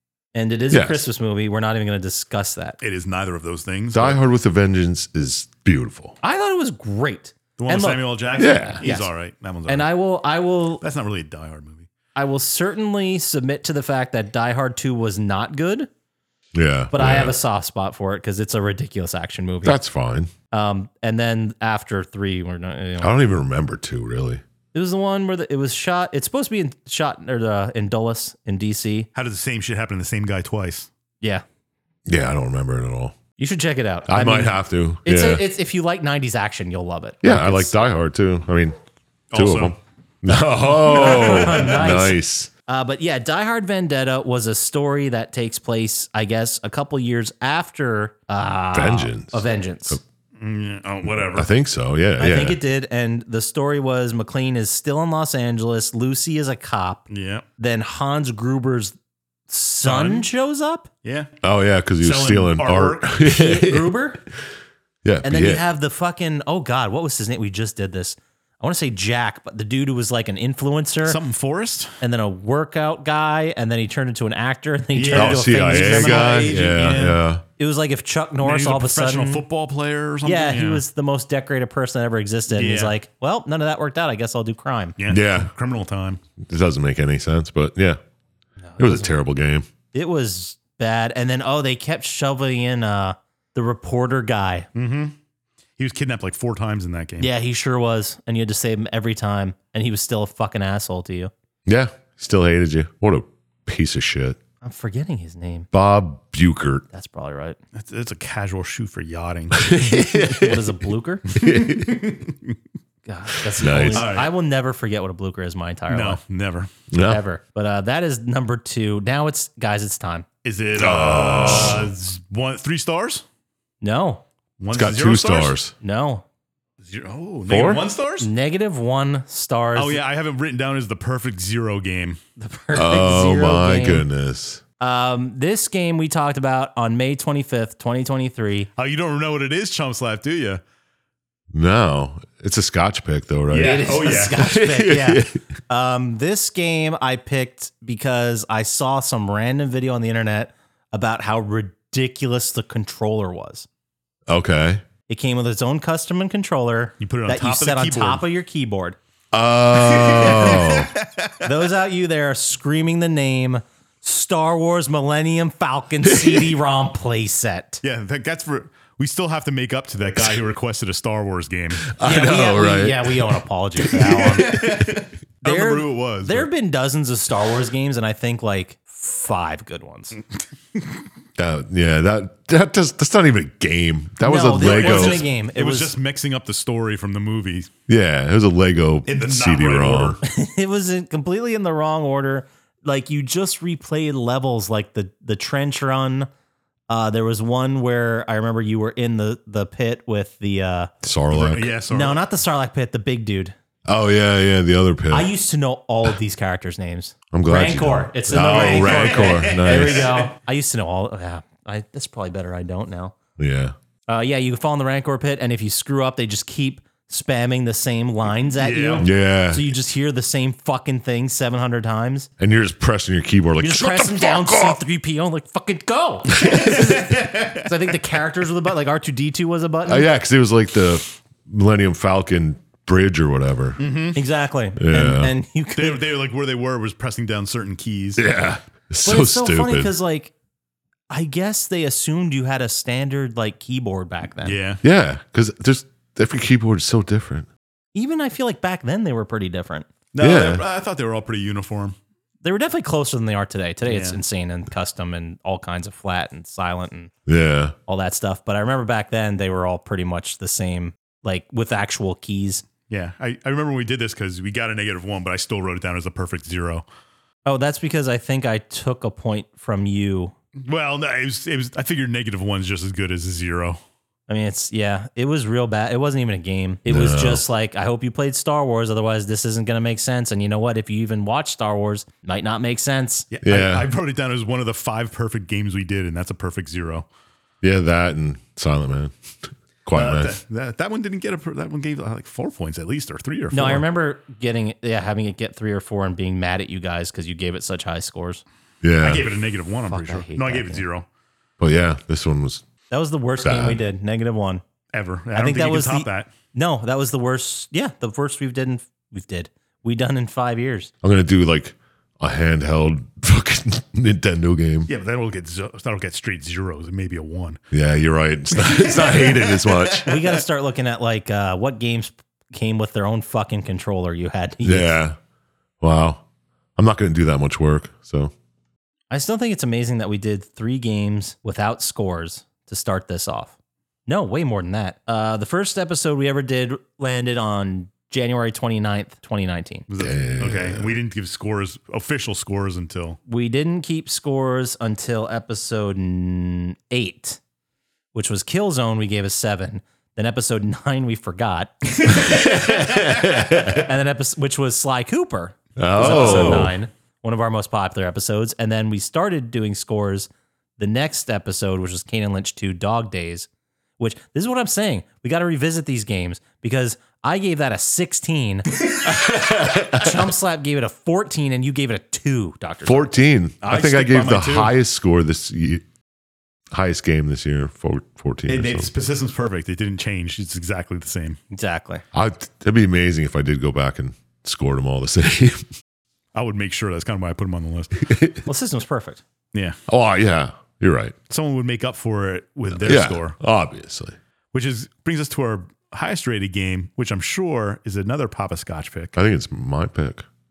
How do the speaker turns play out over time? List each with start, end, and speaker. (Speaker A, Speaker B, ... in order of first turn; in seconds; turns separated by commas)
Speaker A: 0.3-2.8, Speaker B: 0.7-1.1, Speaker C: 2.8-4.2, Speaker B: 3.9-6.2, Speaker A: 6.2-8.1, Speaker C: 7.6-9.9, Speaker B: 8.3-8.8, Speaker A: 8.8-9.1, Speaker A: 9.7-10.8, Speaker C: 10.8-11.9, Speaker A: 12.1-15.9, Speaker B: 16.5-17.3, Speaker A: 16.9-19.8, Speaker B: 19.6-20.3, Speaker A: 20.5-23.2, Speaker B: 23.0-24.4, Speaker A: 24.7-29.1, Speaker C: 29.1-30.9, Speaker B: 32.0-33.2, Speaker A: 33.4-37.7, Speaker B: 34.0-35.4, Speaker B: 37.2-38.7, Speaker C: 39.3-39.8, Speaker B: 39.3-42.5, Speaker A: 40.7-50.0, Speaker C: 40.9-41.8, Speaker B: 48.7-50.0, Speaker C: 50.4-51.5, Speaker B: 51.1-52.6, Speaker A: 52.2-57.0, Speaker C: 57.1-57.4, Speaker A: 57.6-58.9, Speaker A: 59.5-60.9, Speaker C: 59.8-60.3, Speaker C: 61.0-61.3, Speaker B: 61.4-64.0, Speaker C: 62.0-63.1, Speaker A: 63.2-64.2, Speaker B: 65.0-65.6, Speaker A: 65.2-71.2, Speaker C: 71.0-72.0, Speaker A: 72.0-76.6, Speaker C: 74.9-77.2, Speaker B: 75.1-77.4, Speaker A: 77.6-79.4, Speaker C: 78.4-80.8, Speaker A: 80.2-85.0, Speaker C: 82.5-82.9, Speaker C: 85.0-86.2, Speaker B: 85.1-85.5, Speaker B: 86.4-88.0, Speaker A: 88.6-89.1, Speaker B: 88.8-89.7, Speaker A: 89.9-94.7, Speaker C: 94.7-95.1, Speaker C: 95.8-97.3, Speaker A: 97.2-101.3, Speaker B: 101.7-104.4, Speaker A: 104.6-105.7, Speaker B: 105.7-106.8, Speaker A: 106.9-107.6, Speaker C: 107.7-109.7, Speaker B: 109.5-110.6, Speaker A: 110.1-111.3, Speaker C: 111.3-112.5, Speaker B: 111.3-112.0, Speaker A: 113.0-116.2, Speaker B: 113.5-114.1, Speaker C: 113.9-114.3, Speaker C: 115.9-116.7, Speaker B: 116.9-117.2, Speaker A: 117.0-120.2, Speaker C: 120.4-123.2, Speaker B: 120.8-121.9, Speaker A: 123.8-124.2, Speaker C: 124.6-125.6, Speaker B: 124.7-125.7, Speaker A: 125.8-126.2, Speaker C: 126.8-128.3, Speaker B: 127.5-127.8, Speaker A: 128.2-130.0, Speaker C: 129.7-132.2, Speaker A: 132.4-134.0, Speaker B: 132.7-134.6, Speaker A: 134.8-138.7, Speaker C: 138.8-140.6, Speaker B: 141.5-145.4, Speaker C: 143.5-144.4, Speaker A: 143.5-153.7, Speaker B: 154.3-154.8, Speaker A: 155.1-159.0, Speaker C: 157.0-158.2, Speaker B: 159.3-160.9, Speaker C: 159.8-161.4, Speaker A: 161.4-167.8, Speaker C: 167.8-171.9, Speaker B: 171.9-173.3, Speaker A: 172.0-174.9, Speaker C: 173.9-176.5, Speaker A: 175.4-180.2, Speaker B: 181.3-185.2, Speaker A: 184.2-185.9, Speaker C: 184.5-187.7, Speaker B: 187.9-190.2, Speaker C: 189.1-190.2, Speaker A: 190.2-196.3, Speaker A: 196.9-200.9, Speaker B: 201.0-201.7, Speaker C: 201.3-202.2, Speaker A: 201.9-203.5, Speaker B: 203.9-205.3, Speaker A: 205.1-213.2, Speaker B: 207.3-210.1, Speaker C: 208.3-210.3, Speaker B: 213.4-213.7, Speaker A: 214.1-222.3, Speaker C: 218.6-219.1, Speaker B: 219.0-219.7, Speaker B: 222.4-224.8, Speaker A: 223.6-230.1, Speaker C: 226.6-227.6, Speaker B: 229.9-233.8, Speaker C: 233.8-234.2, Speaker A: 234.1-236.0, Speaker B: 234.8-235.3, Speaker C: 235.8-238.2, Speaker B: 238.2-239.9, Speaker A: 239.0-240.3, Speaker A: 241.1-244.6, Speaker C: 244.4-244.8, Speaker B: 244.8-247.5, Speaker A: 247.9-249.9, Speaker C: 250.1-251.9, Speaker B: 250.2-250.6, Speaker A: 252.4-257.1, Speaker C: 253.8-254.2, Speaker B: 257.2-257.8, Speaker A: 257.9-262.6, Speaker C: 262.9-266.8, Speaker A: 267.4-270.3, Speaker C: 270.6-273.8, Speaker A: 274.3-283.3, Speaker B: 276.9-277.4, Speaker C: 283.3-287.1, Speaker B: 283.4-283.9, Speaker B: 287.6-290.4, Speaker C: 289.9-293.8, Speaker A: 293.5-298.4, Speaker B: 298.8-299.2, Speaker C: 299.0-301.1, Speaker A: 299.9-300.8, Speaker B: 301.6-302.6, Speaker A: 302.9-304.6, Speaker B: 303.4-303.8, Speaker C: 304.9-306.3, Speaker A: 305.3-310.9, Speaker B: 311.0-314.9, Speaker C: 314.9-317.6, Speaker B: 317.7-320.1, Speaker C: 318.5-320.3, Speaker A: 320.0-325.0, Speaker B: 324.6-325.2, Speaker B: 325.8-326.2, Speaker B: 326.8-328.3, Speaker A: 329.1-333.5, Speaker A: 334.1-339.9, Speaker C: 339.9-343.2, Speaker B: 340.0-340.9, Speaker A: 343.3-347.4, Speaker A: 348.1-363.5, Speaker B: 352.1-353.9, Speaker B: 355.8-356.7, Speaker C: 356.0-356.7, Speaker A: 364.0-373.1, Speaker B: 369.2-370.2, Speaker B: 372.8-375.8, Speaker C: 373.6-374.7, Speaker B: 376.7-378.9, Speaker C: 378.5-381.4, Speaker A: 381.5-382.0, Speaker B: 382.1-385.7, Speaker C: 386.3-388.1, Speaker B: 388.0-388.4, Speaker A: 388.4-389.2, Speaker C: 389.5-389.8, Speaker B: 389.9-391.1, Speaker C: 391.3-393.4, Speaker B: 392.8-394.2, Speaker C: 394.5-399.2, Speaker B: 399.1-400.2